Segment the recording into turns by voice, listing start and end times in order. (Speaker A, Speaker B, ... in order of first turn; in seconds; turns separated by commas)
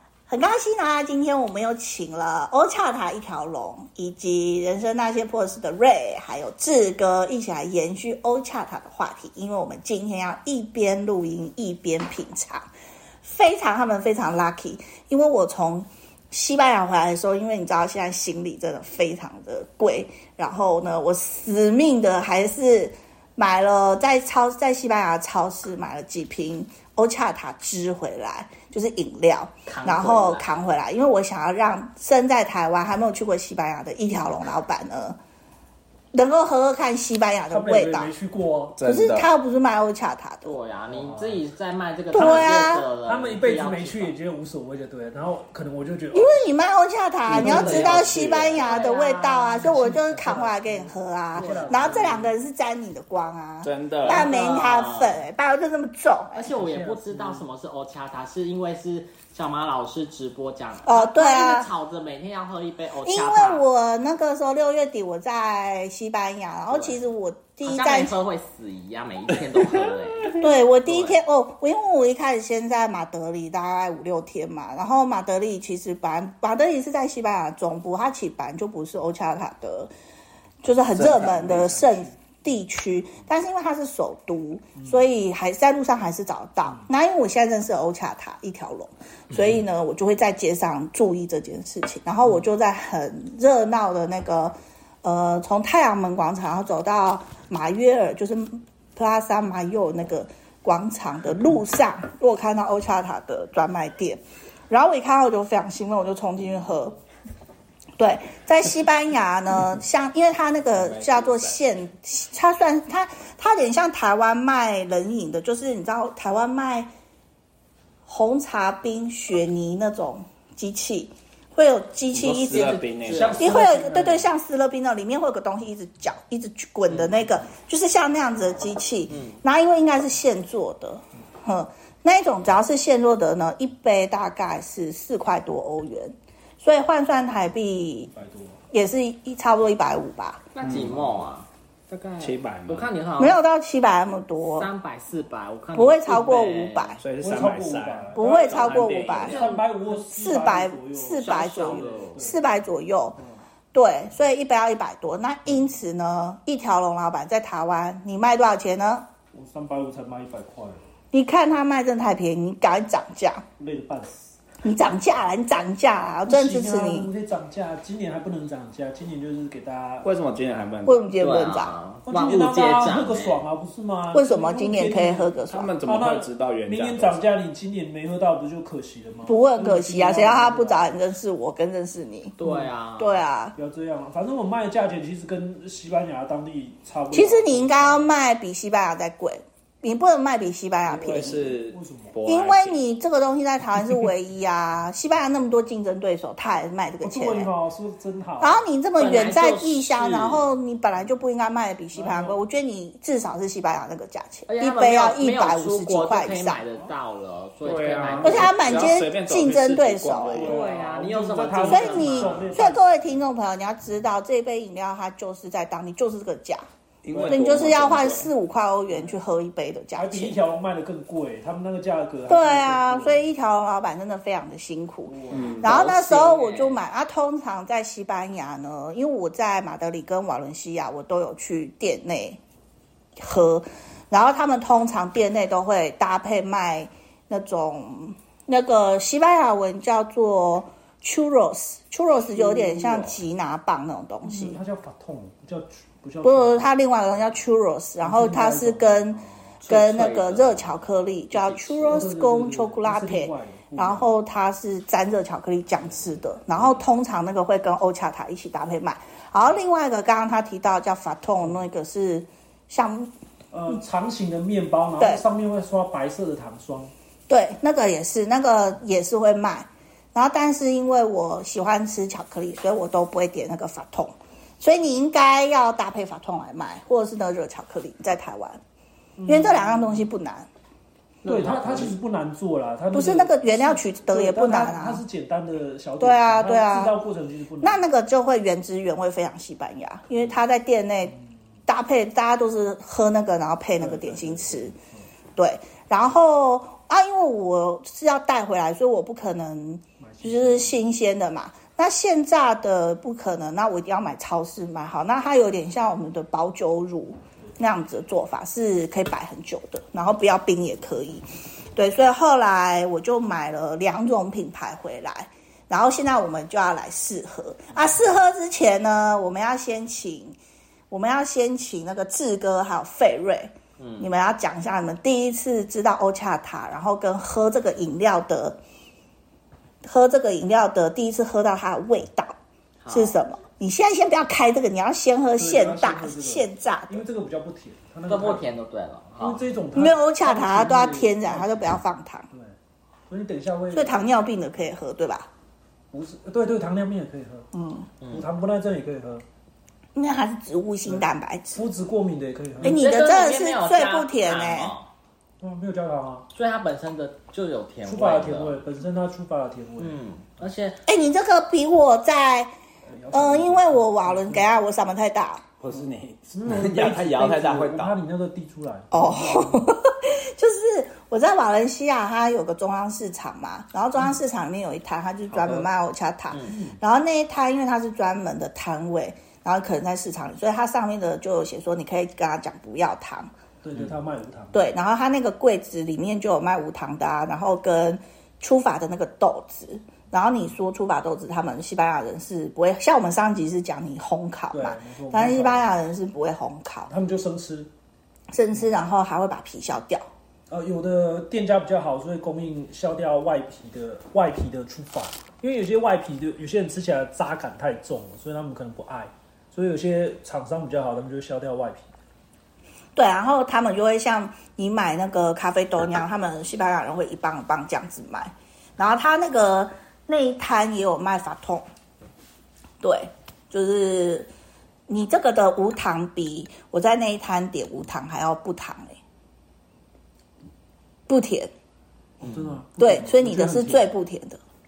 Speaker A: 0.3-12.7, Speaker A: 13.2-35.2, Speaker B: 29.7-30.5, Speaker A: 36.1-38.1, Speaker C: 37.5-38.8, Speaker D: 38.8-39.3, Speaker A: 38.8-40.6, Speaker B: 40.5-44.1, Speaker C: 40.9-41.4, Speaker A: 42.1-42.9, Speaker C: 42.1-46.4, Speaker A: 46.1-56.5, Speaker D: 47.3-48.8, Speaker C: 47.3-48.1, Speaker B: 48.0-49.8, Speaker C: 49.6-52.3, Speaker B: 51.4-52.2, Speaker D: 53.6-54.3, Speaker B: 54.0-55.2, Speaker B: 56.4-63.7, Speaker C: 56.5-57.5, Speaker A: 60.9-61.7, Speaker A: 63.0-68.2, Speaker B: 66.7-67.0, Speaker B: 67.6-71.2, Speaker A: 70.3-79.9, Speaker A: 80.6-107.0, Speaker C: 80.9-82.2, Speaker A: 108.0-116.9, Speaker D: 110.7-111.6, Speaker A: 118.1-122.8, Speaker D: 122.1-123.5, Speaker B: 123.0-123.5, Speaker C: 123.1-124.3, Speaker A: 123.4-138.1, Speaker B: 129.1-129.4, Speaker C: 138.1-138.6, Speaker A: 138.7-140.4, Speaker B: 140.6-143.4, Speaker D: 140.6-141.2, Speaker D: 142.2-142.9, Speaker A: 143.2-144.7, Speaker B: 144.6-147.0, Speaker A: 145.7-147.0, Speaker D: 147.0-149.4, Speaker C: 147.2-152.4, Speaker A: 148.2-153.2, Speaker B: 149.3-149.6, Speaker B: 151.1-152.2, Speaker A: 153.7-159.1, Speaker C: 159.3-160.8, Speaker A: 161.1-163.4, Speaker C: 163.6-164.4, Speaker A: 164.6-167.1, Speaker C: 166.3-170.1, Speaker D: 170.0-171.0, Speaker A: 170.8-171.7, Speaker B: 171.2-173.4, Speaker C: 172.1-180.8, Speaker A: 174.1-175.8, Speaker D: 175.5-177.3, Speaker A: 179.3-182.4, Speaker B: 182.4-183.2, Speaker C: 182.4-182.7, Speaker A: 183.0-183.6, Speaker C: 183.6-188.1, Speaker A: 187.1-191.5, Speaker C: 190.9-192.2, Speaker D: 191.1-192.8, Speaker A: 192.3-197.5, Speaker C: 197.0-198.6, Speaker A: 198.4-206.6, Speaker B: 199.0-200.5, Speaker C: 201.9-202.4, Speaker B: 204.5-208.8, Speaker D: 207.6-210.6, Speaker A: 208.2-210.5, Speaker C: 210.3-212.9, Speaker B: 210.3-212.3, Speaker D: 211.4-212.6, Speaker A: 211.7-216.7, Speaker D: 217.0-218.3, Speaker C: 217.1-217.5, Speaker A: 217.3-220.4, Speaker C: 218.9-219.2, Speaker C: 220.0-223.3, Speaker A: 222.3-232.4, Speaker C: 225.1-225.8, Speaker D: 225.3-225.8, Speaker B: 225.6-226.8, Speaker A: 233.2-244.6, Speaker D: 242.8-243.0, Speaker C: 244.2-246.7, Speaker A: 246.2-263.1, Speaker C: 248.0-249.8, Speaker B: 249.7-252.1, Speaker C: 251.9-254.1, Speaker C: 263.5-266.9, Speaker A: 265.0-265.2, Speaker A: 267.3-278.6, Speaker C: 279.2-280.1, Speaker A: 279.3-280.5, Speaker D: 281.2-282.0, Speaker C: 281.2-287.8, Speaker A: 282.9-285.0, Speaker A: 286.0-287.0, Speaker A: 287.6-294.7, Speaker C: 293.8-295.1, Speaker A: 295.4-311.2, Speaker C: 300.0-300.8, Speaker A: 311.8-320.4, Speaker A: 320.9-328.6, Speaker B: 323.8-324.1, Speaker A: 329.8-332.4, Speaker B: 332.8-333.2, Speaker A: 332.9-337.1, Speaker C: 335.4-338.5, Speaker B: 338.1-339.4, Speaker C: 339.2-341.8, Speaker A: 339.7-342.3, Speaker C: 342.3-342.6, Speaker C: 343.1-344.0, Speaker A: 343.7-345.3, Speaker C: 345.9-347.5, Speaker A: 347.5-347.9, Speaker B: 348.0-348.3, Speaker C: 348.1-349.2, Speaker A: 349.9-351.7, Speaker C: 350.9-352.8, Speaker A: 352.6-354.7, Speaker B: 352.6-354.9, Speaker C: 355.4-356.3, Speaker B: 356.3-358.6, Speaker C: 357.9-360.0, Speaker B: 359.8-360.8, Speaker A: 360.9-362.5, Speaker C: 362.9-364.5, Speaker A: 363.1-365.4, Speaker D: 365.6-368.0, Speaker C: 365.6-369.6, Speaker A: 368.9-383.3, Speaker C: 375.3-375.6, Speaker C: 383.6-384.6, Speaker A: 384.5-396.9, Speaker C: 394.5-395.7, Speaker C: 396.9-397.7, Speaker A: 398.3-400.1, Speaker C: 400.5-411.9, Speaker A: 413.0-421.6, Speaker A: 422.8-424.3, Speaker A: 424.9-429.0, Speaker A: 431.1-431.5, Speaker B: 432.2-432.6, Speaker C: 432.2-433.9, Speaker A: 432.8-434.4